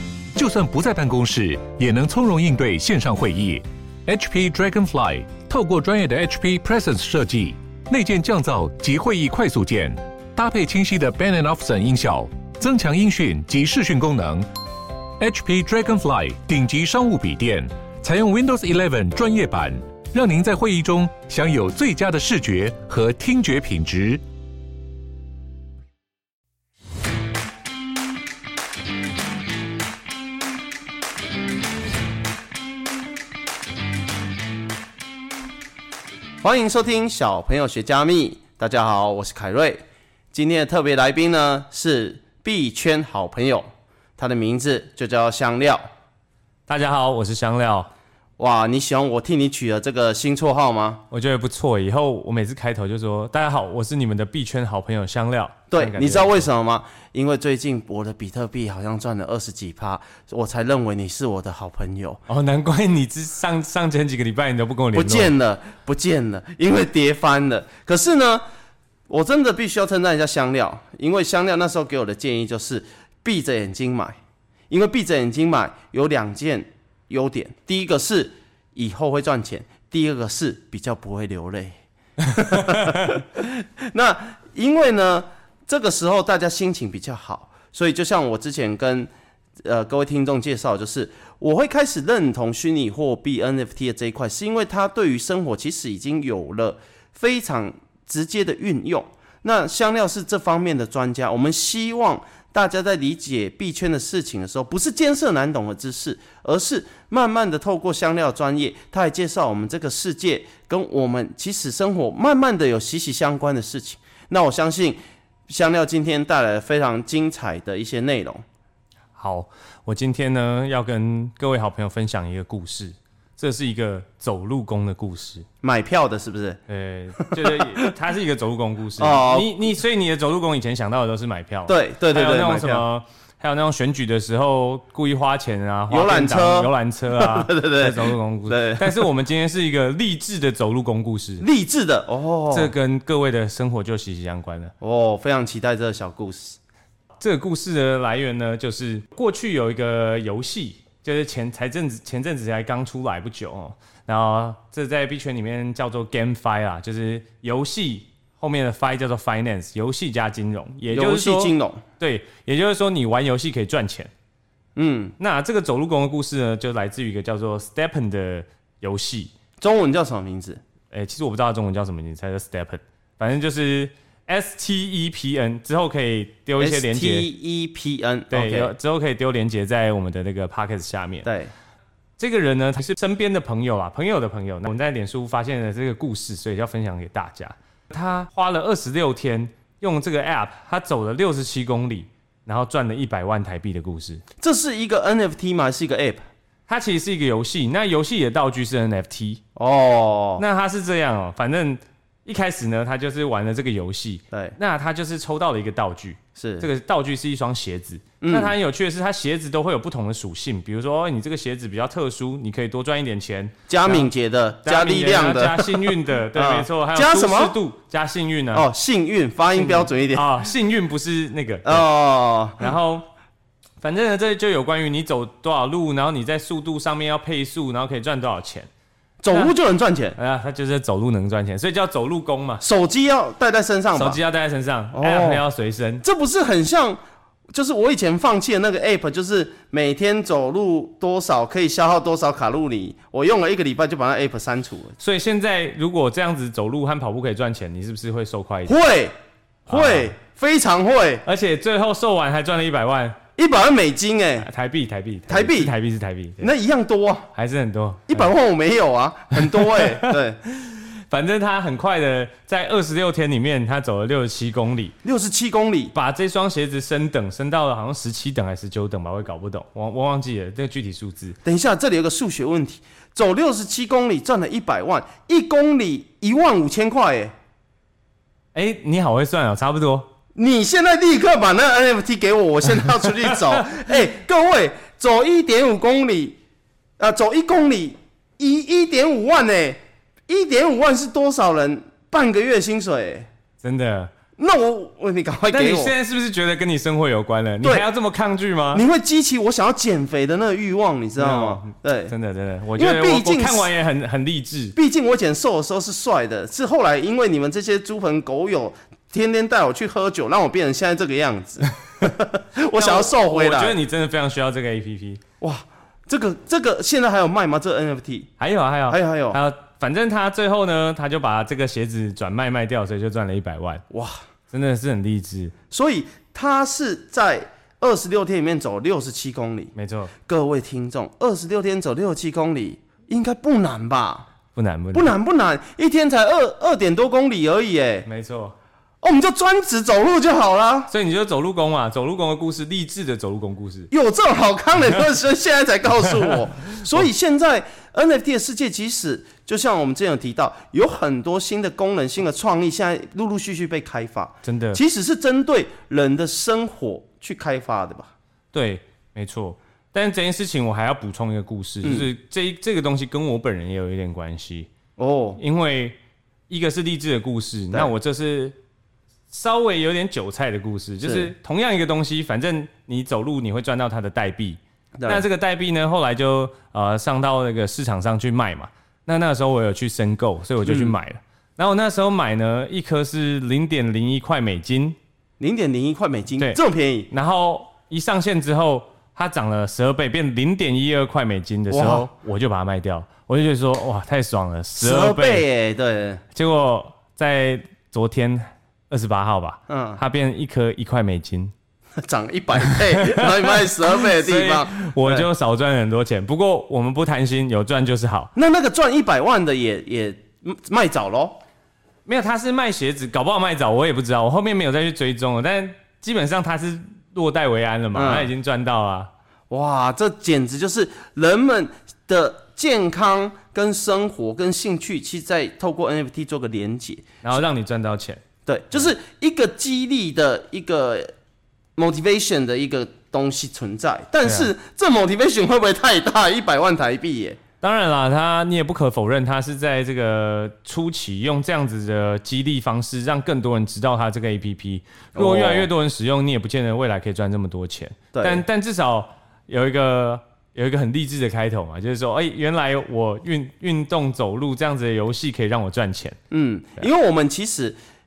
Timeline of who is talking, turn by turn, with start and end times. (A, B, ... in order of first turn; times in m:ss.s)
0:00.4-0:14.5 A
0:15.2-0:24.2 A
0:36.4-0:39.8 B
0:40.3-0:43.7 B
0:44.2-0:45.9 B
0:46.7-0:47.9 C
0:48.4-0:51.0 B
0:51.1-0:56.5 C
0:55.7-1:02.2 B
1:02.3-1:05.3 C
1:04.9-1:08.4 B
1:09.1-1:14.2 B
1:14.7-1:21.8 B
1:22.3-1:29.1 B
1:29.6-1:58.4 B
1:59.2-2:05.5 C
2:05.6-2:06.6 B
2:06.7-2:21.5 C
2:07.2-2:07.8 B
2:09.0-2:09.6 B
2:11.7-2:12.8 B
2:15.9-2:19.1 B
2:21.4-2:22.7 B
2:22.5-2:24.7 C
2:24.8-2:26.6 B
2:27.2-2:44.1 C
2:40.9-2:41.8 B
2:44.8-2:45.2 B
2:45.2-2:49.3 C
2:49.6-2:50.6 B
2:50.9-2:57.3 C
2:56.6-2:58.7 B
2:58.3-3:01.3 C
3:01.2-3:01.5 B
3:02.2-3:14.2 C
3:14.4-3:16.2 B
3:16.7-3:19.4 C
3:19.6-3:20.4 B
3:20.4-3:34.1 C
3:24.3-3:24.6 B
3:26.4-3:26.7 B
3:28.2-3:28.5 B
3:33.7-3:37.6 B
3:34.6-3:38.7 C
3:38.5-3:40.3 B
3:39.6-3:41.9 C
3:41.6-3:42.7 B
3:42.6-3:43.1 C
3:43.8-3:48.7 C
3:49.2-3:50.2 B
3:50.2-3:52.6 C
3:52.6-3:54.2 B
3:54.0-3:56.0 C
3:54.9-3:55.4 B
3:56.0-3:57.0 B
3:57.5-4:04.9 B
4:05.0-4:08.8 C
4:08.7-4:09.1 B
4:09.7-4:11.2 B
4:09.7-4:10.1 C
4:11.2-4:13.2 C
4:13.4-4:14.5 B
4:14.4-4:16.5 C
4:15.3-4:15.7 B
4:16.4-4:17.3 B
4:17.3-4:18.3 C
4:18.1-4:20.4 B
4:19.4-4:25.0 C
4:25.0-4:25.9 B
4:25.9-4:31.4 C
4:31.4-4:37.3 B
4:38.5-4:40.1 C
4:40.4-4:46.4 B
4:47.0-4:53.3 B
4:53.6-4:54.1 C
4:54.4-4:55.9 B
4:55.5-4:58.8 C
4:57.6-4:57.9 B
4:58.7-5:02.1 B
5:01.2-5:04.8 C
5:02.8-5:03.7 B
5:04.7-5:13.8 B
5:12.8-5:15.2 C
5:15.4-5:18.3 B
5:18.4-5:23.8 C
5:18.9-5:19.4 B
5:23.9-5:24.2 B
5:24.5-5:25.5 C
5:25.7-5:29.7 B
5:29.8-5:30.1 C
5:30.3-5:34.3 B
5:34.5-5:35.1 C
5:34.9-5:38.1 B
5:38.0-5:38.6 C
5:39.0-5:40.9 B
5:40.9-5:43.9 C
5:43.9-5:58.1 B
5:54.4-5:54.8 C
5:58.5-6:04.7 C
6:01.8-6:02.1 B
6:05.0-6:05.4 B
6:05.4-6:06.0 C
6:06.5-6:08.6 C
6:09.3-6:25.0 C
6:11.0-6:11.3 B
6:15.0-6:15.3 B
6:20.6-6:20.9 B
6:25.4-6:27.1 B
6:27.1-6:35.4 C
6:31.7-6:32.1 B
6:34.8-6:36.2 B
6:36.3-6:41.5 C
6:39.7-6:40.0 B
6:42.0-6:45.3 B
6:42.6-6:48.3 C
6:48.4-6:51.4 B
6:52.1-6:59.1 C
6:57.9-6:58.3 B
6:59.5-7:07.4 B
7:07.2-7:08.2 C
7:08.5-7:11.1 B
7:11.8-7:17.4 B
7:14.2-7:14.5 C
7:17.6-7:36.2 C
7:25.2-7:25.7 B
7:28.1-7:28.4 B
7:36.3-7:37.8 B